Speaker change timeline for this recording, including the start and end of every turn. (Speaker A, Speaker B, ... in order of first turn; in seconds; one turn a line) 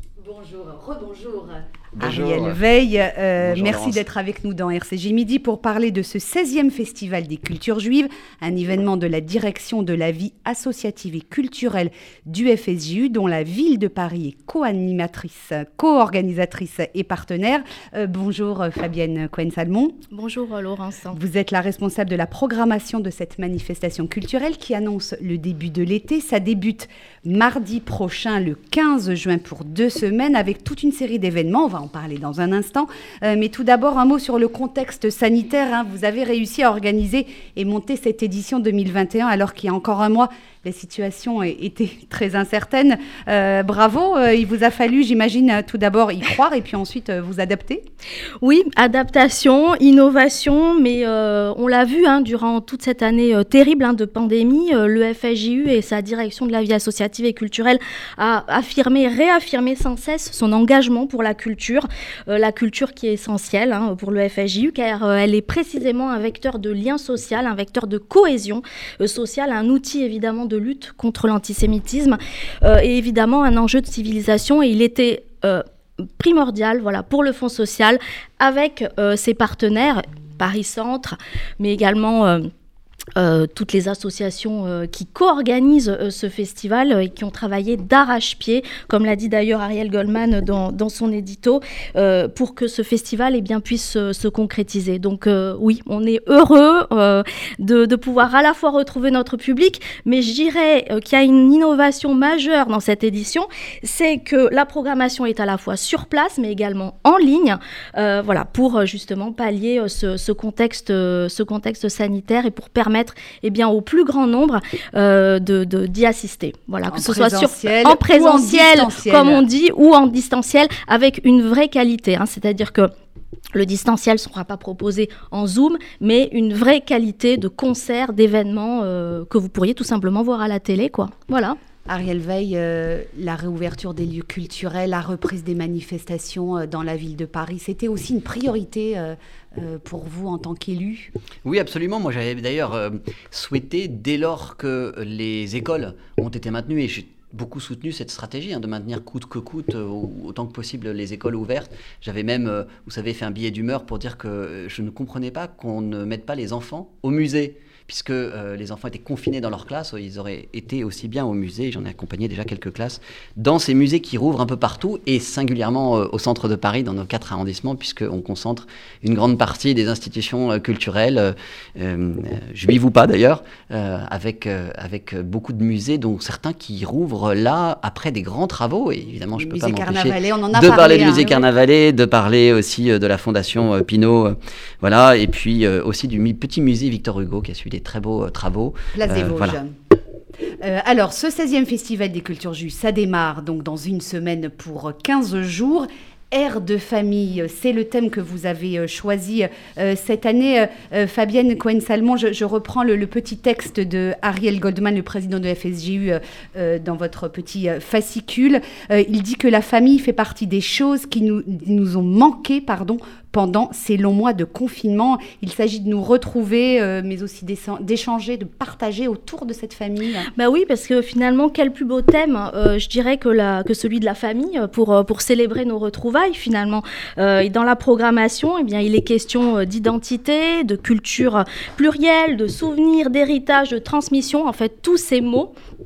Speaker A: 0.3-19.9
Speaker B: 1.9-2.6
Speaker B: 3.4-4.0
Speaker C: 20.1-21.2
Speaker A: 21.1-47.8
Speaker C: 48.4-75.6
Speaker C: 76.2-82.5
Speaker C: 83.2-122.9
Speaker A: 116.9-119.4
Speaker C: 123.5-131.6
Speaker A: 131.9-141.1
Speaker B: 141.4-189.6
Speaker A: 179.3-181.4
Speaker A: 188.9-189.7
Speaker A: 190.6-220.3
Speaker C: 220.3-235.5